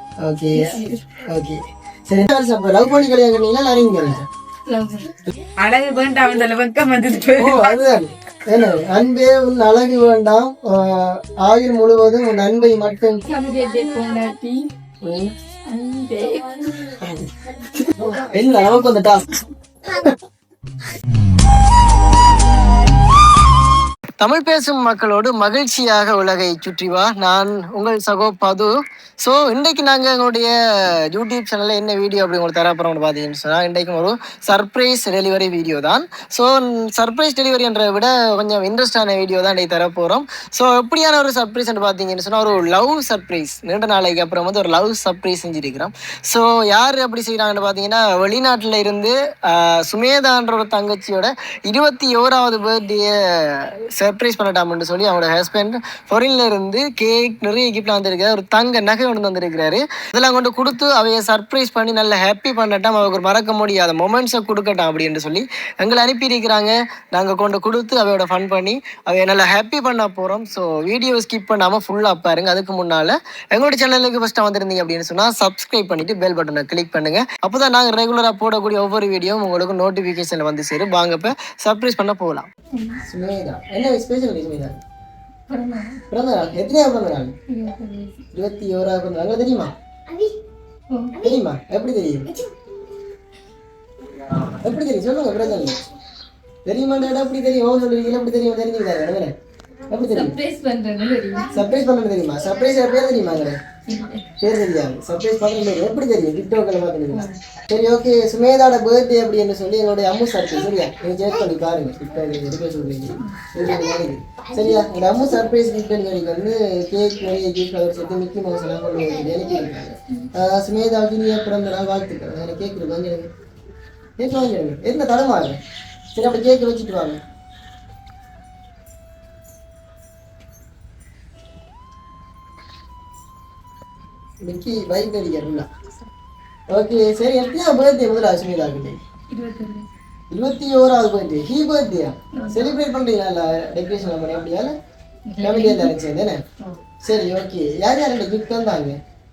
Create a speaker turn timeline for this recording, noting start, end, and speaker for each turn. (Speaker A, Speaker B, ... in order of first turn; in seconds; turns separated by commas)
Speaker A: 0.2-4.3, Speaker B: 0.6-1.0, Speaker B: 4.7-5.2, Speaker C: 5.6-7.7, Speaker A: 7.4-13.2, Speaker B: 13.3-14.7, Speaker A: 15.0-15.3, Speaker B: 15.7-17.0, Speaker A: 17.0-20.2, Speaker A: 24.2-82.5, Speaker B: 82.7-83.0, Speaker A: 83.1-84.8, Speaker B: 85.5-86.0, Speaker A: 86.1-87.3, Speaker B: 87.5-88.2, Speaker A: 88.3-89.7, Speaker B: 90.9-91.2, Speaker A: 91.2-92.4, Speaker A: 94.3-95.8, Speaker A: 96.7-99.3, Speaker A: 99.9-100.4, Speaker B: 100.0-101.6, Speaker A: 101.5-103.6, Speaker B: 103.9-104.3, Speaker A: 104.4-123.3, Speaker B: 107.1-107.4, Speaker A: 124.2-125.6, Speaker A: 126.1-127.2, Speaker A: 134.4-135.7, Speaker A: 136.7-139.0, Speaker B: 139.3-139.9, Speaker A: 140.3-144.7, Speaker B: 142.3-142.7, Speaker B: 145.3-145.9, Speaker A: 145.4-146.4, Speaker A: 147.0-149.0